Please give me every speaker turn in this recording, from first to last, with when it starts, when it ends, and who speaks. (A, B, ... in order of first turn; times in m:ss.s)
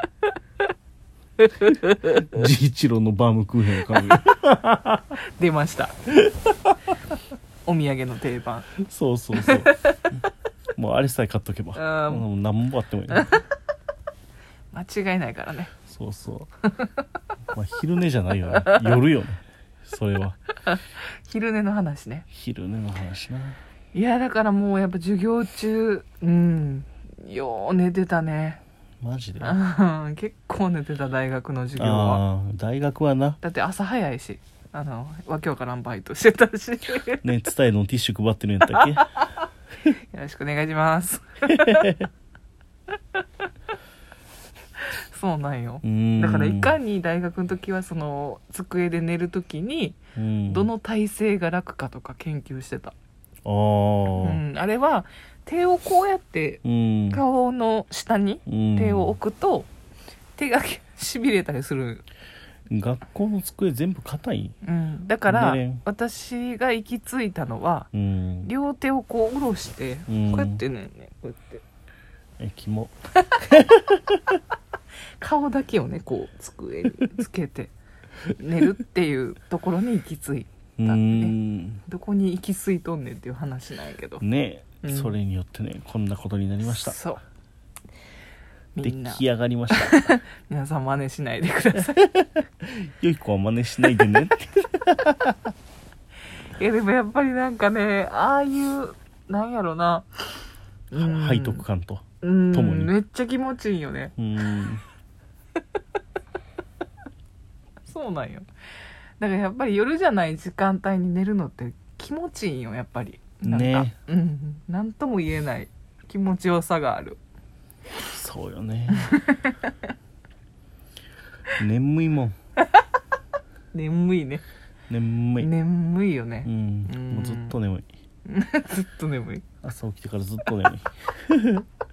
0:01.4-0:02.2 A
0:02.2-0:05.1 B
0:05.4-0:06.0 A
0:07.7-0:08.7 A
0:08.8-0:09.7 B
0:09.4-0:10.0 A
0:10.8-0:13.3 B
0:11.8-0:12.2 A
0:14.7-0:15.7 A
0:15.9-0:16.5 B
0:17.5-0:20.4 B
0:18.6-0:19.0 A
0:20.6-0:22.2 A
0:22.3-0:23.6 B
0:23.9-0:28.6 A
0:29.0-0:29.6 B
0:29.4-0:32.2 A
0:31.8-0:33.4 B
0:33.4-0:37.2 A
0:37.2-0:39.1 B
0:39.9-0:41.9 A
0:41.5-0:42.1 B
0:44.9-0:53.0 A
0:45.8-0:46.8 B
0:50.2-0:50.7 B
0:53.4-0:54.4 B
0:54.2-0:59.7 A
0:56.6-0:57.2 B
0:58.5-0:59.2 B
1:00.4-1:02.0 A
1:02.7-1:04.6 B
1:04.6-1:07.9 A
1:05.3-1:05.8 B
1:07.9-1:08.5 B
1:08.4-1:11.6 A
1:10.1-1:10.6 B
1:12.4-1:14.2 B
1:15.2-1:17.7 A
1:18.3-1:21.3 A
1:20.8-1:21.8 B
1:21.9-1:24.2 A
1:24.2-1:27.0 B
1:24.8-1:25.1 A
1:26.6-1:27.2 A
1:28.8-1:32.1 A
1:28.8-1:30.2 B
1:32.6-1:35.4 B
1:36.6-1:41.6 A
1:40.9-1:42.9 B
1:42.2-1:44.1 A
1:44.2-1:44.8 B
1:47.9-1:48.4 A
1:49.2-1:57.2 A
1:53.4-1:53.9 B
1:58.1-1:59.2 B
1:58.9-1:59.8 A
2:01.6-2:02.4 B
2:03.7-2:04.4 A
2:04.9-2:05.5 B
2:05.4-2:07.6 A
2:06.4-2:07.9 B
2:08.3-2:09.4 A
2:09.6-2:11.7 B